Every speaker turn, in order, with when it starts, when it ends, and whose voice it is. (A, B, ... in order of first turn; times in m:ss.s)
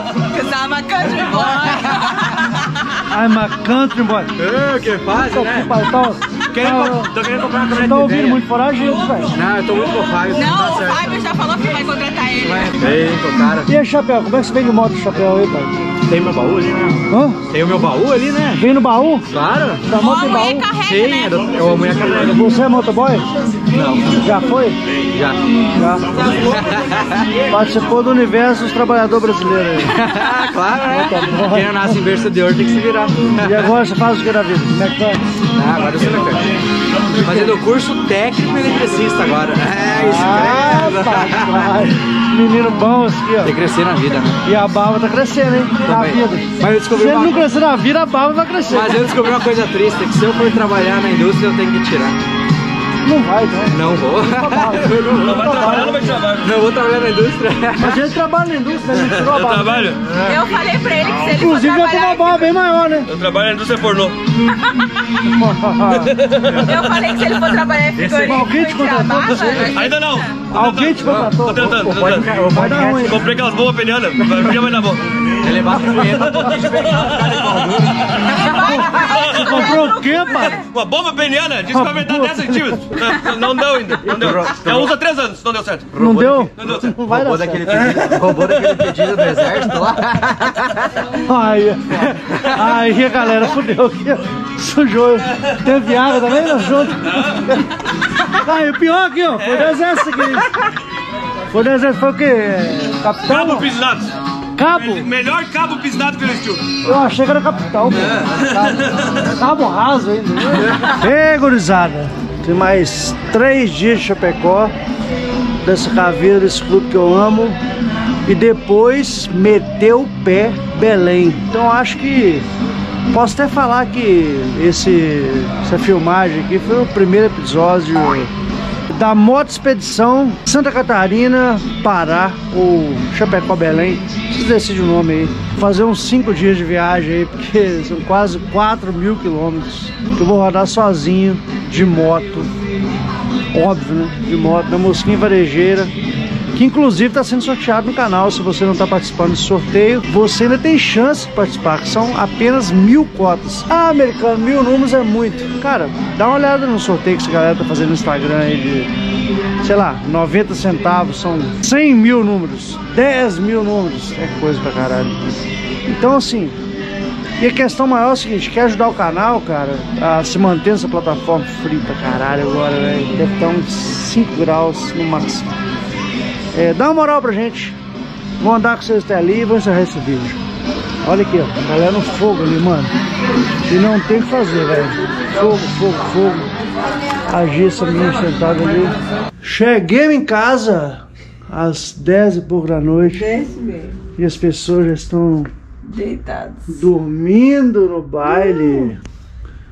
0:00.2-0:02.4 A
0:01.6-0:02.1 B
0:03.0-0:04.3 C
0:04.4-0:05.7 B
0:05.1-0:07.2 C
0:06.6-0:08.4 B
0:07.7-0:09.3 C
0:09.3-0:11.2 B
0:10.3-0:12.9 A
0:12.4-0:13.7 B
0:13.6-0:15.8 C
0:15.1-0:15.4 B
0:15.9-0:18.6 B
0:17.1-0:17.4 C
0:18.5-0:19.3 C
0:19.3-0:19.9 B
0:19.8-0:20.7 C
0:20.0-0:21.5 A
0:20.8-0:22.6 B
0:22.1-0:23.2 C
0:23.6-0:24.3 B
0:24.1-0:24.8 C
0:25.1-0:25.4 B
0:25.5-0:26.5 C
0:26.2-0:27.3 B
0:27.4-0:30.0 C
0:29.9-0:33.7 B
0:30.8-0:32.0 C
0:33.4-0:35.2 C
0:35.5-0:41.8 B
0:40.0-0:43.5 C
0:43.4-0:44.4 B
0:44.4-0:49.2 C
0:45.8-0:47.5 B
0:48.7-0:52.2 B
0:53.0-0:56.3 C
0:53.7-0:58.0 B
0:55.2-0:56.5 D
0:57.8-1:00.0 C
0:59.0-1:00.0 D
1:00.0-1:00.4 B
1:00.2-1:02.5 A
1:01.2-1:03.1 C
1:03.1-1:04.2 D
1:05.2-1:06.6 C
1:05.9-1:07.4 D
1:06.5-1:10.4 A
1:08.0-1:09.8 C
1:09.6-1:15.4 D
1:10.5-1:13.3 C
1:11.0-1:13.2 B
1:15.4-1:18.5 B
1:15.6-1:16.5 C
1:16.2-1:17.6 D
1:18.3-1:20.6 A
1:18.5-1:20.6 C
1:19.1-1:19.7 D
1:20.5-1:25.9 D
1:21.7-1:23.1 C
1:24.0-1:24.9 B
1:25.9-1:31.0 B
1:26.0-1:28.2 C
1:26.6-1:26.9 D
1:28.5-1:28.9 D
1:31.1-1:37.6 C
1:38.2-1:40.5 C
1:41.5-1:43.7 C
1:43.2-1:44.2 D
1:44.6-1:45.1 C
1:44.7-1:46.8 D
1:46.8-1:48.3 C
1:48.0-1:48.9 B
1:48.4-1:49.0 D
1:49.1-1:54.7 C
1:55.6-1:57.6 C
1:58.2-2:02.5 C
2:03.1-2:08.3 C
2:08.9-2:22.5 C
2:23.5-2:25.9 C
2:26.5-2:38.9 C
2:39.6-2:45.3 C
2:45.9-2:46.6 C
2:47.4-2:55.6 C
2:56.5-2:57.8 C
2:58.4-3:00.4 C
3:01.0-3:02.9 C
3:03.7-3:06.5 C
3:07.2-3:13.4 C
3:13.4-3:13.8 A
3:14.2-3:15.5 C
3:15.9-3:16.7 A
3:16.7-3:19.0 C